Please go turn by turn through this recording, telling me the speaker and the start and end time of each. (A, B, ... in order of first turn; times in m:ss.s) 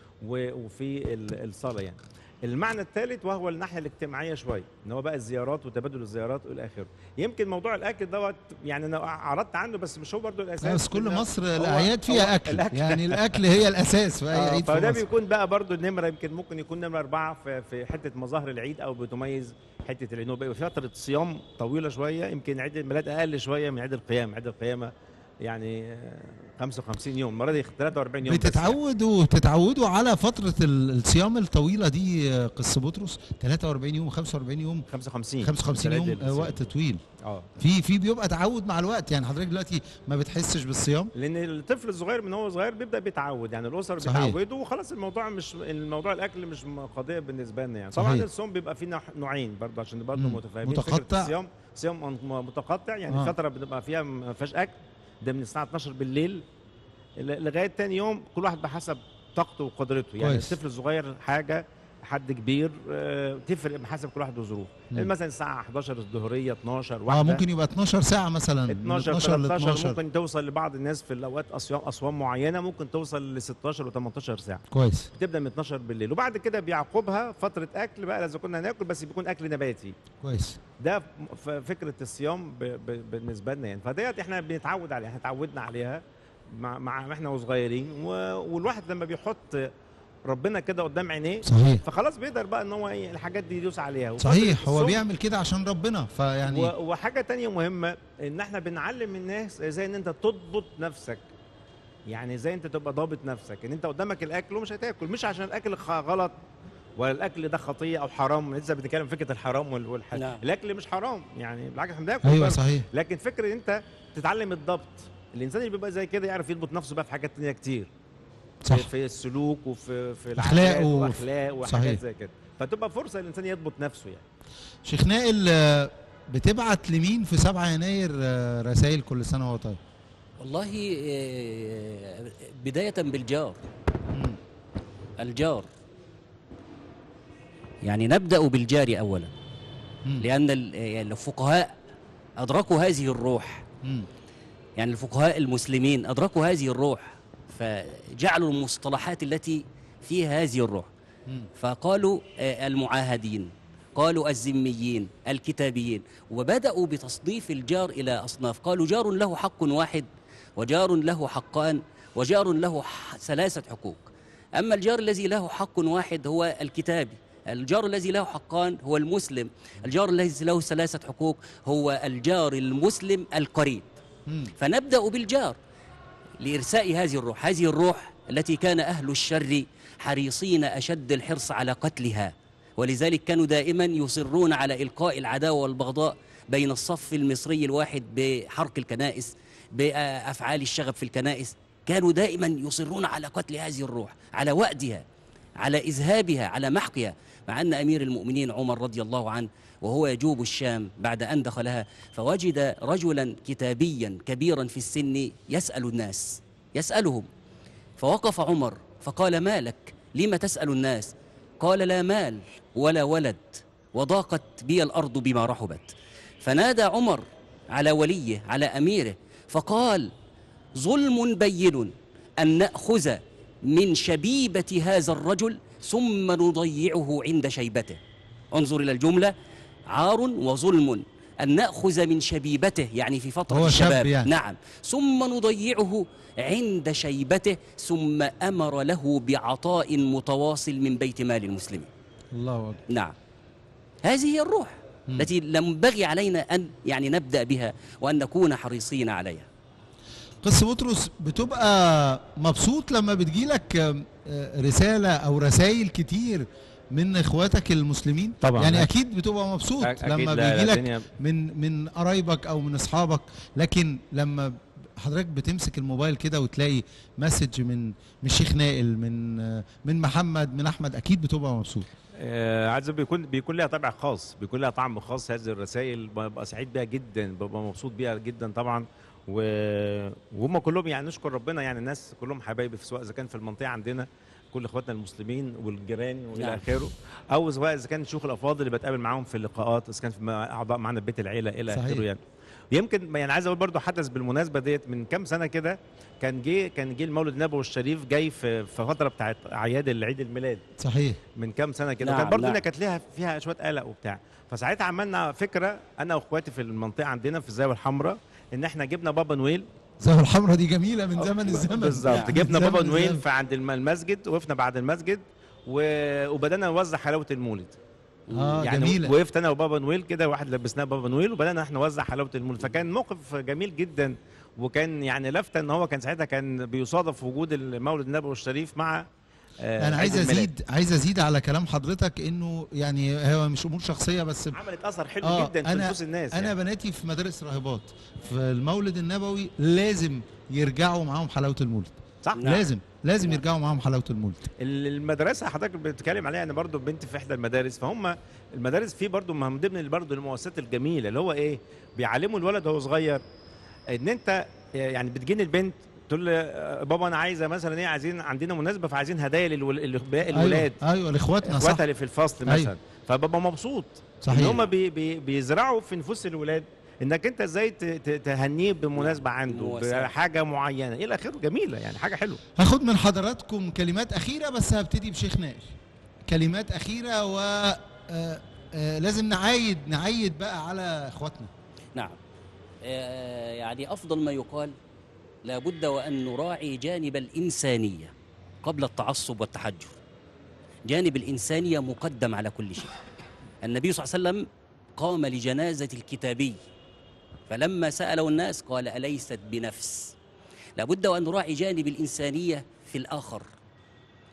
0:00.2-0:13.4 A
0:10.6-0:15.0 B
0:14.3-0:28.8 A
0:28.2-0:34.9 B
0:34.9-0:36.7 A
0:35.4-0:37.0 B
0:37.2-0:37.5 A
0:37.6-0:41.1 B
0:41.2-0:56.4 A
0:44.0-0:44.4 B
0:48.0-0:48.3 B
0:50.2-0:51.3 B
0:57.2-1:07.4 A
1:00.2-1:00.6 B
1:07.1-1:10.0 B
1:08.7-1:20.0 A
1:14.7-1:15.1 B
1:20.2-1:20.6 B
1:20.8-1:29.7 A
1:30.3-1:35.0 A
1:31.4-1:31.8 B
1:34.2-1:36.7 B
1:36.5-1:41.2 A
1:42.1-1:46.4 A
1:47.0-1:57.9 A
1:50.1-1:50.4 C
1:52.2-1:52.9 B
1:58.6-1:58.9 B
1:58.7-2:04.2 A
2:00.4-2:02.0 B
2:04.8-2:09.8 B
2:10.4-2:13.6 C
2:14.1-2:14.4 B
2:15.2-2:15.7 C
2:17.8-2:19.3 C
2:20.2-2:21.8 C
2:22.4-2:23.6 C
2:24.8-2:30.9 C
2:31.6-2:54.0 C
2:54.3-2:54.5 B
2:54.6-2:55.6 C
2:56.4-3:15.0 C
3:15.6-3:27.3 C
3:28.0-3:40.1 C
3:40.8-3:48.0 C
3:48.5-3:49.3 C
3:49.9-4:01.9 C
3:53.5-3:54.3 B
4:02.3-4:02.8 B
4:02.9-4:03.2 C
4:04.0-4:09.5 C
4:10.4-4:31.9 B
4:18.4-4:18.9 A
4:19.8-4:21.1 A
4:32.2-4:52.2 A
4:46.4-4:46.6 C
4:51.7-4:52.0 B
4:52.7-5:00.6 A
5:00.8-5:01.2 B
5:01.4-5:09.6 A
5:02.0-5:02.6 C
5:10.0-5:13.2 B
5:11.2-5:17.8 A
5:12.1-5:12.4 C
5:18.3-5:18.6 C
5:18.3-5:19.1 B
5:18.6-5:29.1 A
5:29.6-5:30.5 A
5:29.8-5:34.6 B
5:34.5-5:36.5 A
5:35.2-5:44.5 B
5:42.2-5:42.6 A
5:42.4-5:42.6 C
5:44.6-5:53.2 A
5:53.9-6:00.8 A
6:00.3-6:01.8 B
6:01.4-6:12.4 A
6:02.5-6:02.7 B
6:04.2-6:04.6 B
6:09.0-6:10.1 C
6:12.6-6:15.8 B
6:16.3-6:21.5 B
6:22.8-6:24.8 C
6:25.4-6:30.0 C
6:30.9-6:33.0 C
6:33.6-6:36.6 C
6:37.5-6:40.2 C
6:40.8-6:43.5 C